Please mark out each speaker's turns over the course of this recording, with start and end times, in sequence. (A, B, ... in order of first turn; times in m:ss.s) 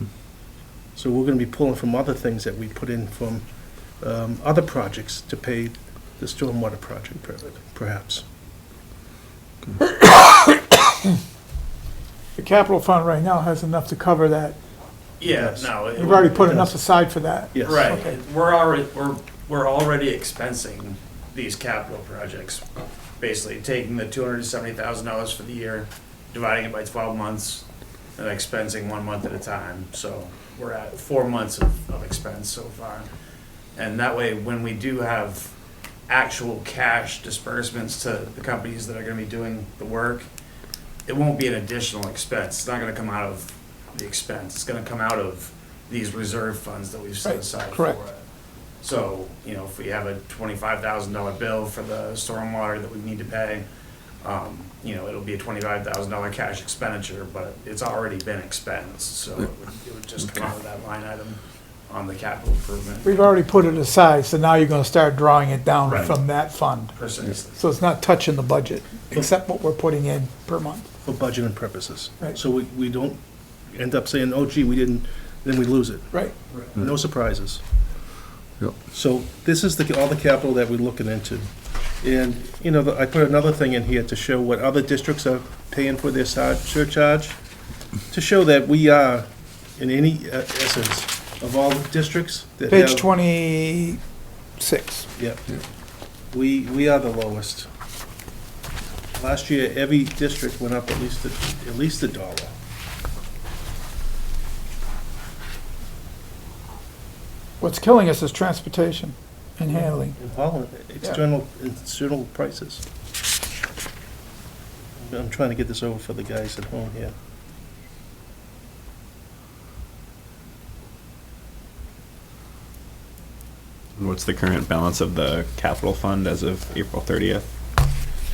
0:00.9-0:03.5 A
0:04.0-0:08.2 A
0:10.0-0:10.4 B
0:12.4-0:14.6 B
0:15.2-0:16.4 C
0:15.3-0:16.8 A
0:16.0-0:18.2 B
0:17.5-0:17.9 A
0:17.6-0:22.6 C
0:23.2-0:27.6 C
0:28.2-0:33.1 C
0:33.8-0:35.5 C
0:36.1-0:40.3 C
0:41.1-0:48.2 C
0:47.2-0:48.0 B
0:48.8-0:53.6 C
0:54.2-1:03.3 C
1:03.0-1:06.9 B
1:05.9-1:06.2 C
1:06.9-1:07.6 C
1:07.6-1:10.9 B
1:11.0-1:16.2 A
1:16.8-1:17.6 A
1:18.9-1:21.5 A
1:22.0-1:27.4 A
1:28.1-1:33.1 A
1:32.7-1:34.0 B
1:34.6-1:35.1 B
1:35.2-1:35.4 A
1:36.3-1:37.7 A
1:39.2-1:42.5 A
1:47.6-1:50.2 B
1:49.7-1:52.8 A
1:55.1-1:57.2 A
2:04.0-2:07.5 D